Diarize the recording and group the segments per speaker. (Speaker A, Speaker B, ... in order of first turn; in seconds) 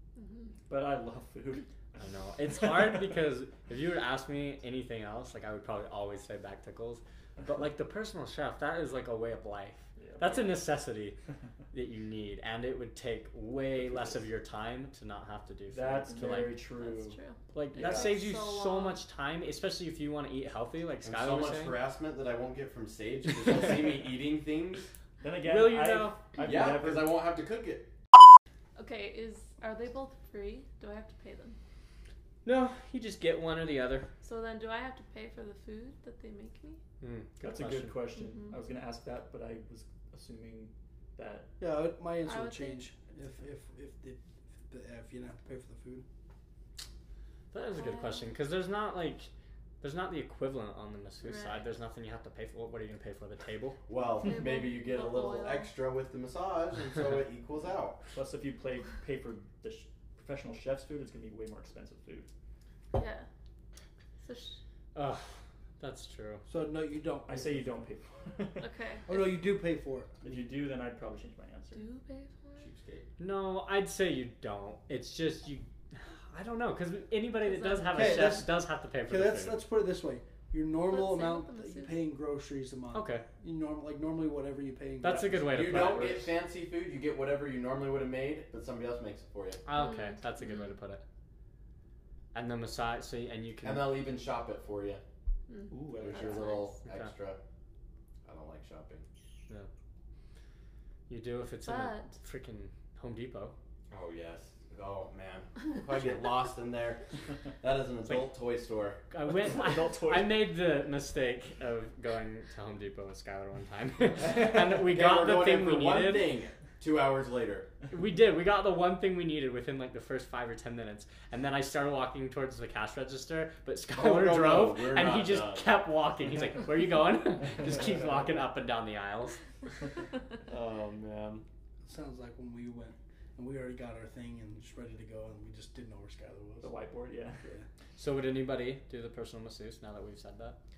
Speaker A: 0.1-0.5, 16.3-19.0, 28.8-31.6, 34.2-36.8, 38.1-38.6, 42.2-42.9, 47.8-48.3, 51.2-51.6, 54.1-55.7, 62.9-63.3, 64.2-64.6, 68.6-69.4, 71.7-72.7, 77.4-78.5, 80.8-82.0, 89.7-90.7, 95.5-96.8, 101.6-102.2
Speaker B: 0.7-1.7, 10.0-10.6, 13.8-14.2, 15.7-17.2, 17.7-18.1, 25.2-27.2, 37.4-41.5, 58.1-62.3, 67.3-68.7, 70.2-71.8, 85.1-86.2, 95.7-96.5, 109.3-110.4, 136.6-137.5
Speaker C: 2.0-11.2, 11.7-16.6, 17.5-21.8, 25.4-26.3, 32.4-34.1, 37.0-38.0, 47.5-49.3, 49.8-53.8, 64.9-66.4, 73.2-79.6, 82.9-83.2, 85.0-86.3, 89.7-91.0, 92.3-94.0, 96.8-97.1, 101.1-103.5, 108.0-108.3, 109.1-116.3, 117.9-129.4, 130.5-131.4, 137.9-140.6
Speaker D: 21.0-24.9, 26.4-27.9, 53.9-58.0, 72.6-73.1, 85.5-89.6, 93.6-95.0, 96.0-97.4, 98.2-99.0, 103.9-107.1, 107.6-109.0, 114.7-117.7, 123.9-125.7
Speaker E: 41.6-46.0, 66.5-67.8, 69.1-70.1, 77.9-78.5, 79.0-85.8, 131.8-136.7, 137.4-137.7